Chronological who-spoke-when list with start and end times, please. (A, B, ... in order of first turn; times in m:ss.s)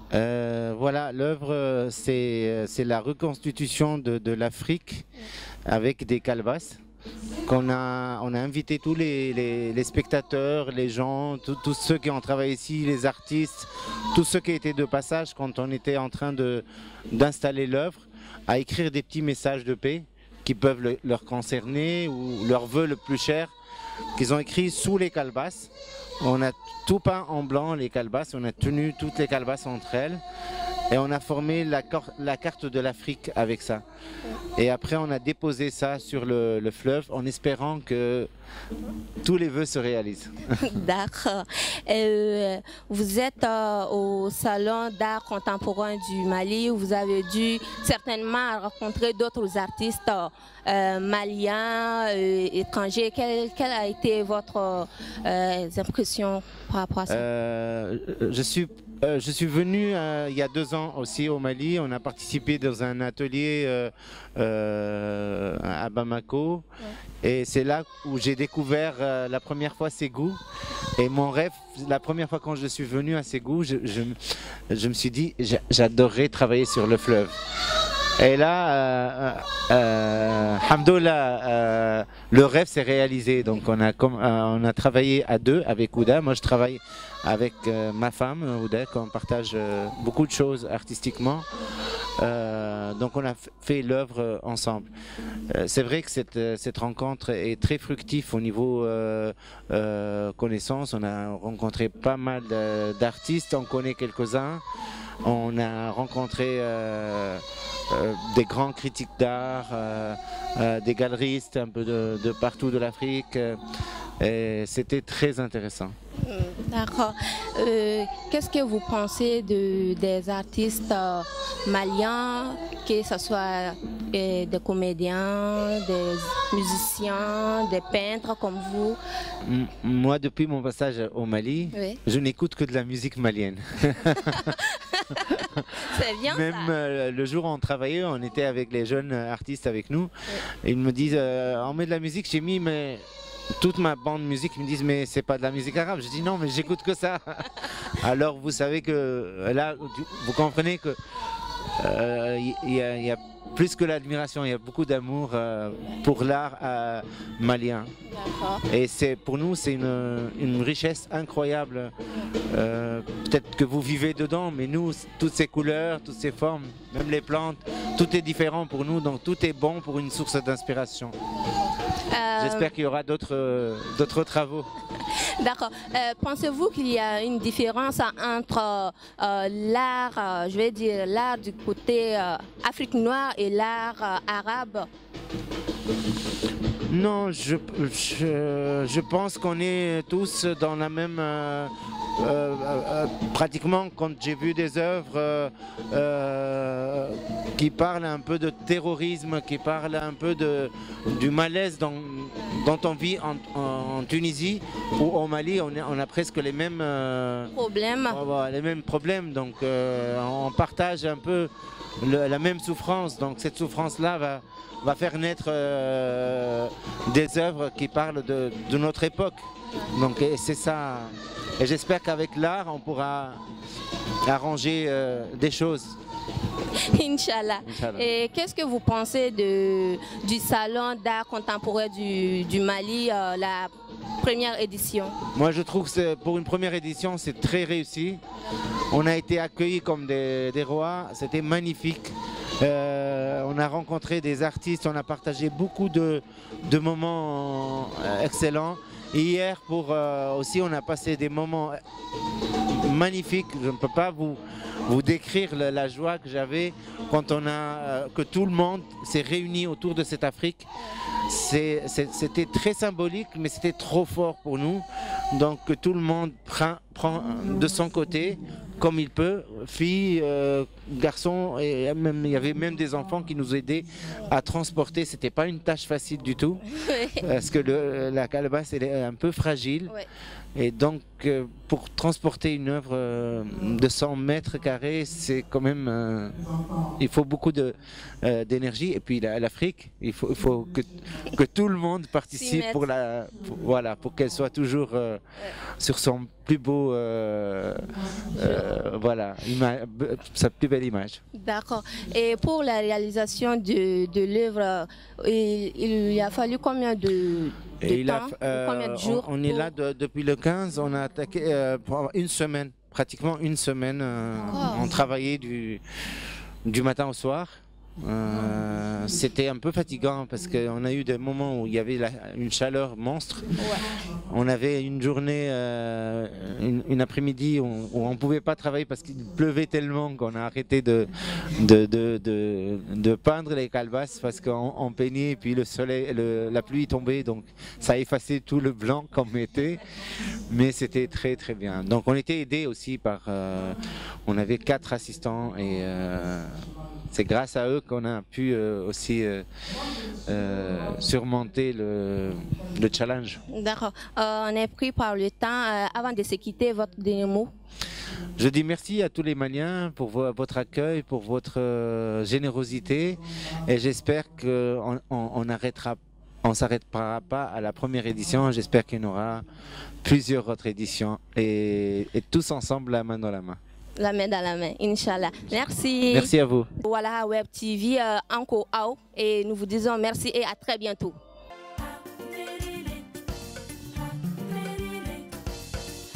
0:00.1-0:05.1 A
0:05.7-0:06.8 A
0:07.4-0:23.5 A
0:24.2-0:30.2 A
0:30.9-0:33.8 A
0:34.6-0:38.3 A
0:39.2-0:40.6 A
0:40.6-0:57.3 B
0:57.1-1:06.6 A
1:07.2-1:10.4 A
1:11.0-1:17.3 A
1:18.2-1:31.5 A
1:32.2-1:34.9 A
1:35.5-1:44.6 A
1:45.2-1:53.6 A
1:54.2-1:55.9 A
1:56.2-2:09.0 B
2:09.4-2:14.6 A
2:11.7-2:12.0 B
2:14.1-2:16.7 B
2:15.3-2:23.0 A
2:23.6-2:31.0 A
2:31.8-2:37.9 A
2:38.1-2:38.6 B
2:38.7-2:51.1 A
2:51.5-2:52.7 B
2:52.4-2:54.7 A
2:55.1-3:04.9 B
3:06.9-3:27.5 A
3:27.5-3:28.2 B
3:28.1-3:43.4 A
3:44.2-3:46.0 A
3:46.7-3:55.2 B
3:47.7-3:48.1 A
3:55.3-3:58.2 A
3:58.9-4:11.8 A
4:12.7-4:20.7 A
4:21.2-4:36.6 A
4:36.7-4:37.2 B
4:37.2-4:39.9 A
4:40.6-4:46.4 A
4:47.0-4:55.2 A
4:52.3-4:52.9 B
4:55.8-5:01.2 A
4:58.3-4:58.6 B
5:01.3-5:09.8 B
5:07.8-5:15.8 A
5:14.5-5:14.9 B
5:16.7-5:23.6 A
5:23.6-5:23.8 B
5:24.3-5:39.8 A
5:40.4-5:49.4 A
5:50.2-5:53.4 A
5:53.5-5:57.5 B
5:58.4-6:09.4 A
6:10.0-6:13.6 A
6:14.0-6:21.2 B
6:16.1-6:16.7 A
6:22.0-6:23.0 B
6:24.4-6:25.1 B